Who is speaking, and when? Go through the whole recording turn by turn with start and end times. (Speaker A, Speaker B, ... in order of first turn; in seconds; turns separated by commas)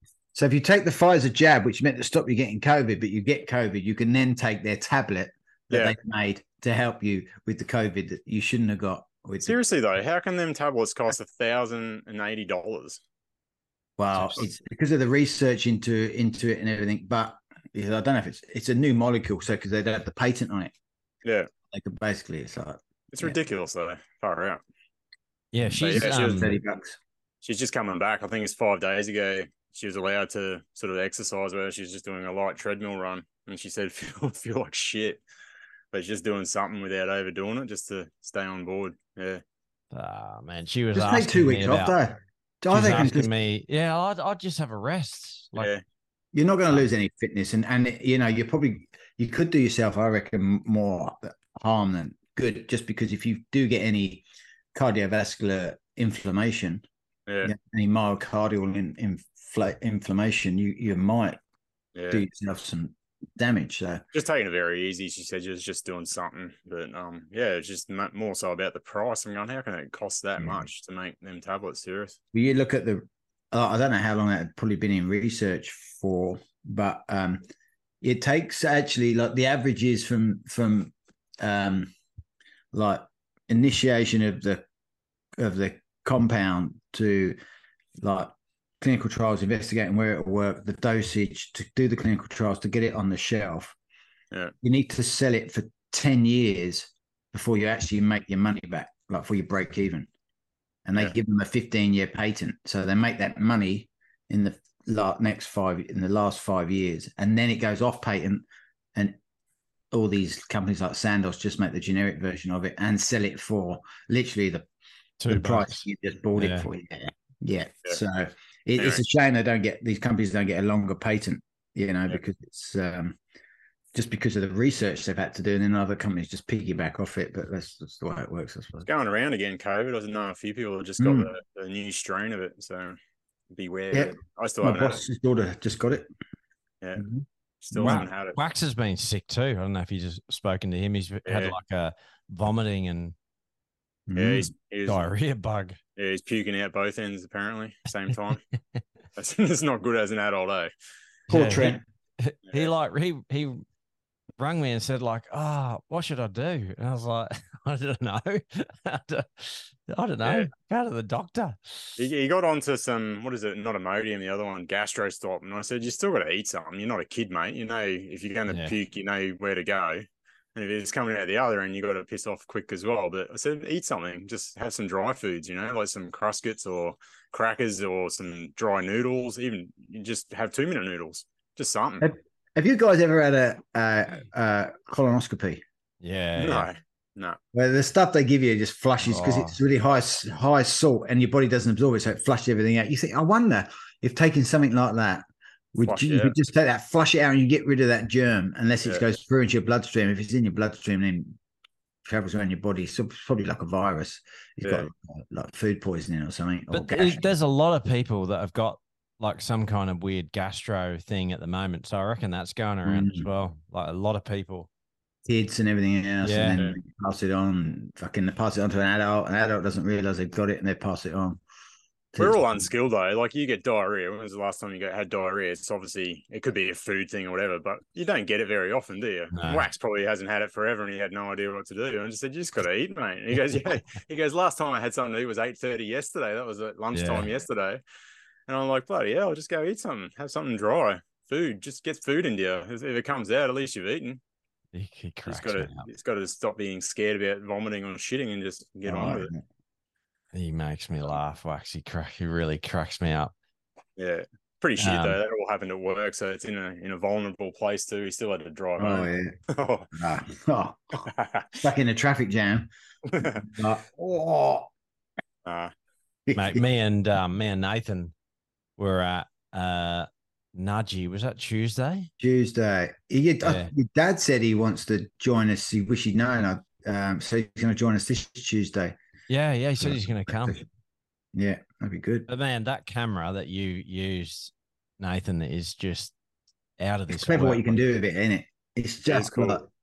Speaker A: 0.3-9.6, Speaker B: 5.7-5.9, Speaker B: 9.4-13.0, Speaker A: 14.0-20.7, Speaker C: 14.1-14.4, Speaker A: 21.7-23.4, Speaker B: 23.1-24.6, Speaker C: 25.5-26.5, Speaker A: 25.6-27.0, Speaker B: 25.8-26.5, Speaker B: 27.4-35.2, Speaker B: 35.9-39.4, Speaker C: 39.9-42.0, Speaker A: 40.9-43.3, Speaker C: 42.7-45.7, Speaker B: 45.5-45.8, Speaker A: 46.3-56.8, Speaker B: 57.3-57.5, Speaker A: 57.4-61.4, Speaker B: 61.9-62.2, Speaker A: 62.1-64.0, Speaker B: 64.1-72.2, Speaker A: 70.4-70.6, Speaker A: 72.3-77.4, Speaker A: 78.0-81.9, Speaker A: 82.7-84.6, Speaker A: 85.4-87.4, Speaker A: 88.0-93.7, Speaker A: 94.6-100.1, Speaker A: 100.8-109.2, Speaker A: 109.9-114.7, Speaker C: 115.2-115.8, Speaker A: 115.3-123.2, Speaker C: 116.3-116.7, Speaker B: 118.8-119.0, Speaker A: 123.9-128.9, Speaker B: 128.8-133.0, Speaker A: 131.0-131.3, Speaker B: 133.5-135.0, Speaker A: 133.9-136.1, Speaker A: 137.0-138.1, Speaker B: 137.6-138.4, Speaker C: 137.8-143.1, Speaker B: 141.2-141.6, Speaker A: 144.1-144.5, Speaker B: 144.2-145.1, Speaker C: 144.9-145.8, Speaker B: 145.9-148.4, Speaker B: 149.2-150.7, Speaker A: 151.3-151.8, Speaker C: 151.3-153.6, Speaker C: 154.4-162.0, Speaker B: 160.2-160.5, Speaker B: 162.0-182.1, Speaker C: 168.5-168.7, Speaker A: 182.0-185.6, Speaker C: 186.0-186.7, Speaker B: 186.4-187.4, Speaker A: 187.5-201.4, Speaker C: 189.0-189.6, Speaker B: 195.8-196.3, Speaker A: 202.0-207.2, Speaker B: 204.6-204.9, Speaker C: 206.7-214.7, Speaker A: 212.8-213.3, Speaker A: 215.2-221.4, Speaker C: 216.2-216.6, Speaker A: 222.1-222.6, Speaker B: 222.2-237.8, Speaker C: 229.3-229.7, Speaker C: 236.9-237.3, Speaker B: 238.5-244.2, Speaker C: 244.7-245.8, Speaker B: 245.3-249.3, Speaker A: 248.8-249.4, Speaker C: 250.3-253.3, Speaker B: 254.0-259.9, Speaker C: 254.8-255.2, Speaker A: 258.8-259.3, Speaker A: 259.9-262.7, Speaker B: 261.0-261.5, Speaker B: 263.1-263.4, Speaker A: 263.2-264.7, Speaker B: 265.4-265.7, Speaker A: 266.3-266.6, Speaker C: 266.4-268.1, Speaker C: 268.8-272.1, Speaker A: 272.2-278.9, Speaker C: 273.4-273.7, Speaker C: 279.3-280.6, Speaker A: 279.8-280.6, Speaker A: 281.3-282.3, Speaker C: 282.3-286.1, Speaker C: 286.8-287.8, Speaker A: 287.1-289.7, Speaker B: 289.1-289.6